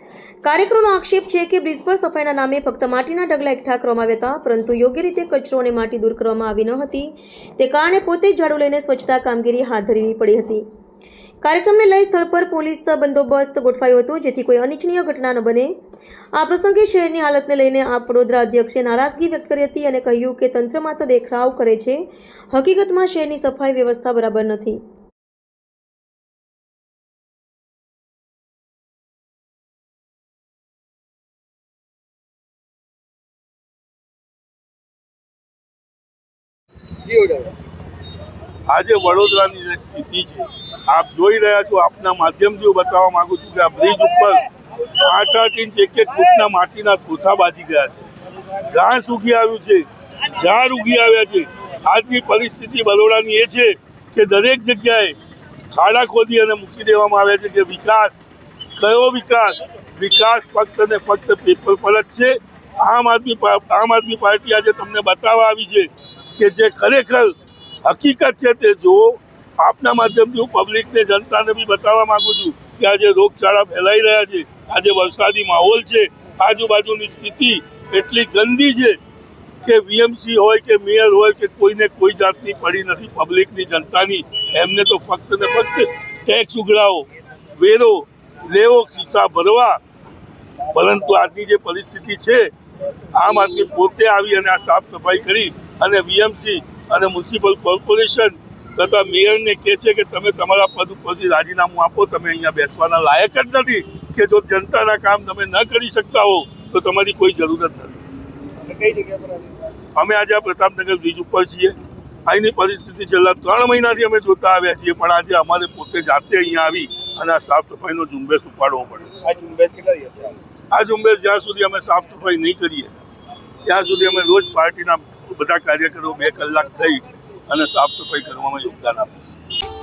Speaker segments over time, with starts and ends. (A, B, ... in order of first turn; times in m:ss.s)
0:00.4-0:10.6 A
0:11.4-0:15.7 A
0:16.4-0:24.8 A
0:37.1-0:37.5 B
0:38.7-0:44.4 C
0:45.0-0:48.0 C
0:48.7-0:55.2 C
0:55.7-0:58.2 C
0:58.8-1:07.3 C
1:07.8-1:19.0 C
1:19.6-1:27.0 C
1:27.6-1:29.8 C
1:30.7-1:32.5 C
1:33.2-1:48.0 C
1:48.6-1:49.5 B
1:50.0-1:51.8 C
1:52.3-1:59.2 C
1:59.2-2:00.4 B
2:00.7-2:02.9 C
2:03.6-2:09.4 C